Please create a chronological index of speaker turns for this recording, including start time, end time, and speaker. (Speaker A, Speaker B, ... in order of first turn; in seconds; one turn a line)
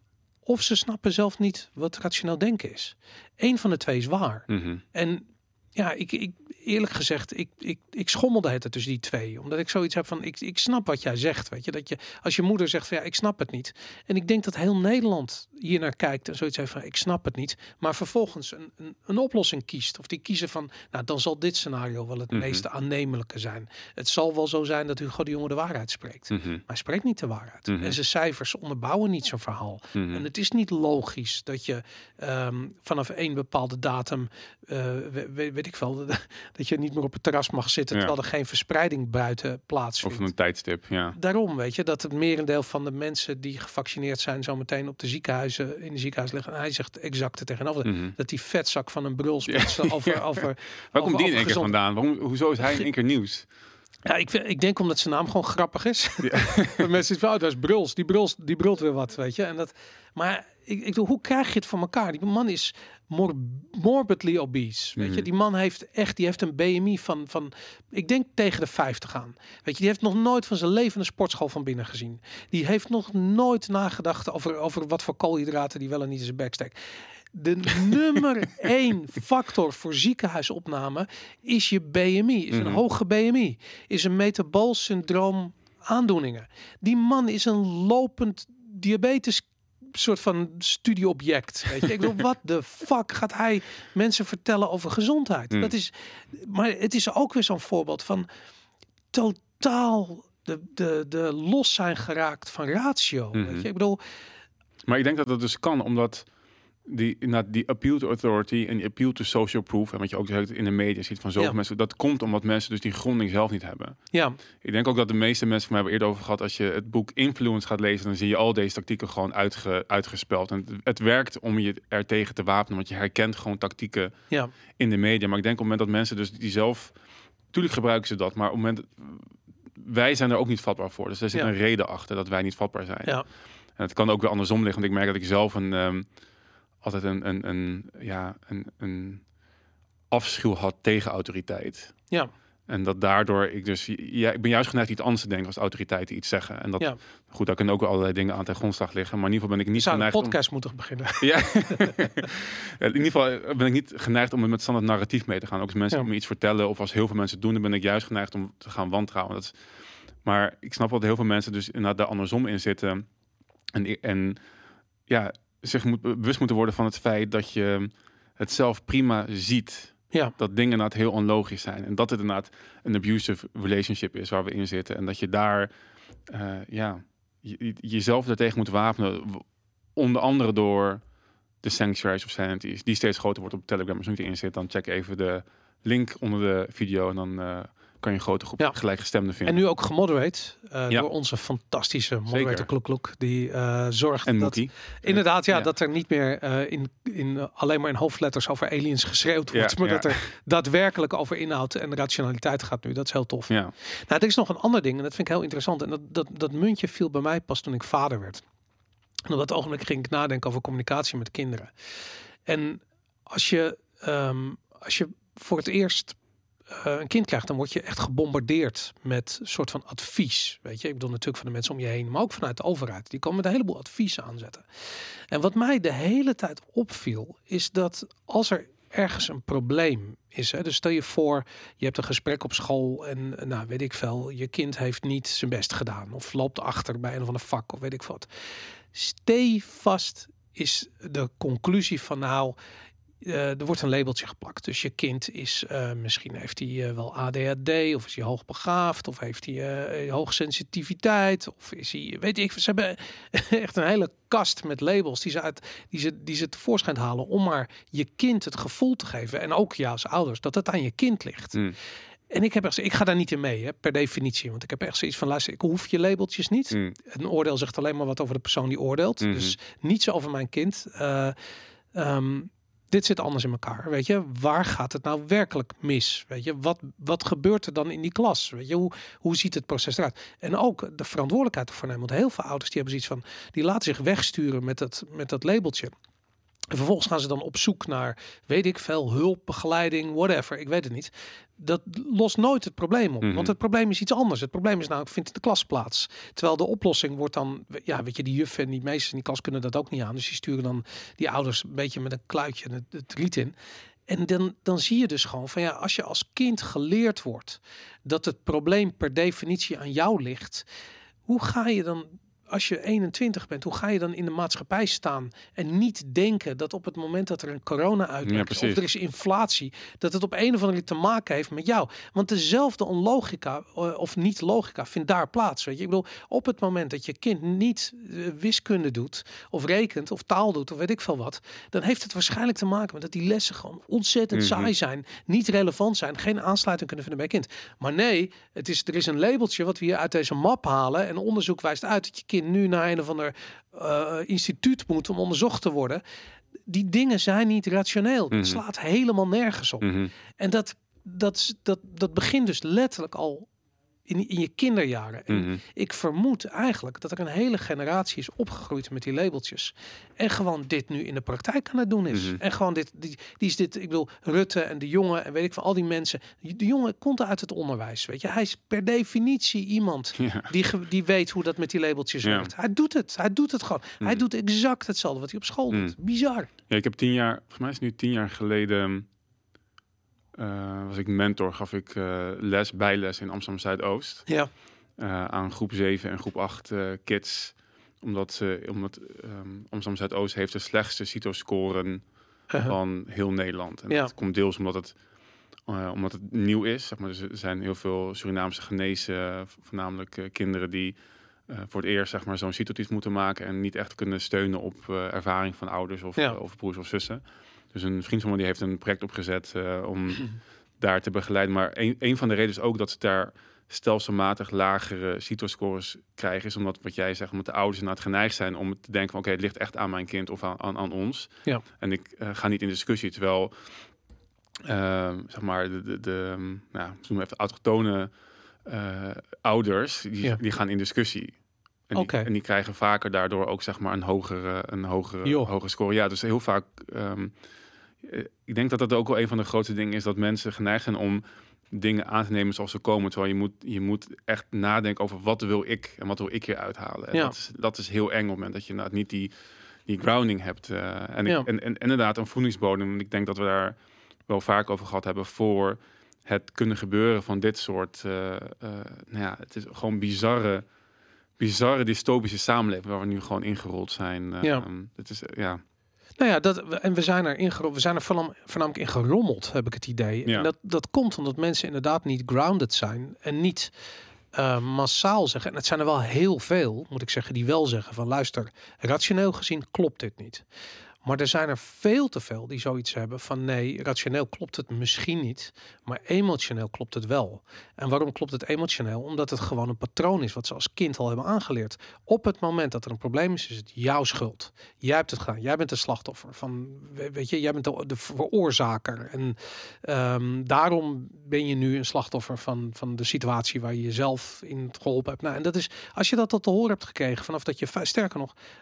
Speaker A: 0.5-40.3
Speaker B: 4.5-4.8
Speaker B: 22.3-22.6
Speaker B: 26.3-26.6
Speaker B: 27.7-28.0
Speaker B: 29.9-30.2
Speaker B: 40.0-41.2
Speaker A: 41.1-51.7
Speaker B: 47.8-48.1
Speaker B: 49.5-50.2
Speaker B: 50.9-53.5
Speaker A: 54.1-76.8
Speaker B: 56.2-56.9
Speaker B: 65.0-65.3
Speaker A: 77.3-98.3
Speaker B: 82.5-82.8
Speaker A: 99.1-104.0
Speaker B: 103.3-103.7
Speaker B: 104.9-106.3
Speaker B: 106.8-114.0
Speaker A: 114.1-114.4
Speaker B: 114.6-124.1
Speaker B: 124.8-126.9
Speaker B: 127.5-133.2
Speaker B: 133.8-136.1
Speaker B: 136.8-139.2
Speaker B: 140.1-141.9
Speaker B: 142.7-150.3
Speaker A: 149.8-152.0
Speaker B: 151.2-159.5
Speaker B: 160.2-163.1
Speaker B: 163.7-164.4
Speaker B: 165.1-175.7
Speaker B: 176.3-181.0
Speaker B: 181.6-189.6
Speaker A: 189.5-203.5
Speaker B: 192.3-192.7
Speaker B: 194.3-195.7
Speaker B: 199.5-200.2
Speaker A: 204.1-208.4
Speaker A: 209.3-211.7
Speaker A: 212.5-216.2
Speaker A: 216.7-224.7
Speaker A: 225.3-238.3
Speaker A: 238.9-242.6
Speaker A: 243.2-261.6
Speaker A: 262.3-271.4
Speaker B: 269.2-269.6
Speaker A: 271.9-285.9
Speaker A: 286.7-303.5
Speaker B: 293.2-293.5
Speaker A: 304.1-310.6
Speaker A: 311.3-346.0
Speaker B: 318.2-318.8
Speaker B: 334.3-334.7
Speaker A: 346.7-353.5
Speaker B: 348.3-348.6
Speaker B: 349.8-350.1
Speaker A: 354.1-376.5
Speaker B: 355.3-355.6
Speaker B: 362.1-362.4
Speaker B: 370.2-370.5
Speaker B: 372.2-372.5
Speaker B: 376.7-379.1
Speaker B: 380.4-384.3
Speaker B: 385.0-392.0
Speaker A: 392.5-392.8
Speaker B: 392.6-394.9
Speaker B: 395.7-401.0
Speaker B: 401.5-407.2
Speaker B: 407.7-423.5
Speaker B: 424.6-428.1
Speaker B: 428.6-431.4
Speaker B: 431.9-437.3
Speaker A: 431.9-432.3
Speaker A: 435.2-435.5
Speaker B: 438.0-449.3
Speaker B: 449.9-453.8
Speaker B: 454.3-460.6
Speaker B: 461.4-465.6
Speaker A: 466.2-473.7
Speaker A: 474.3-480.4
Speaker A: 481.0-508.3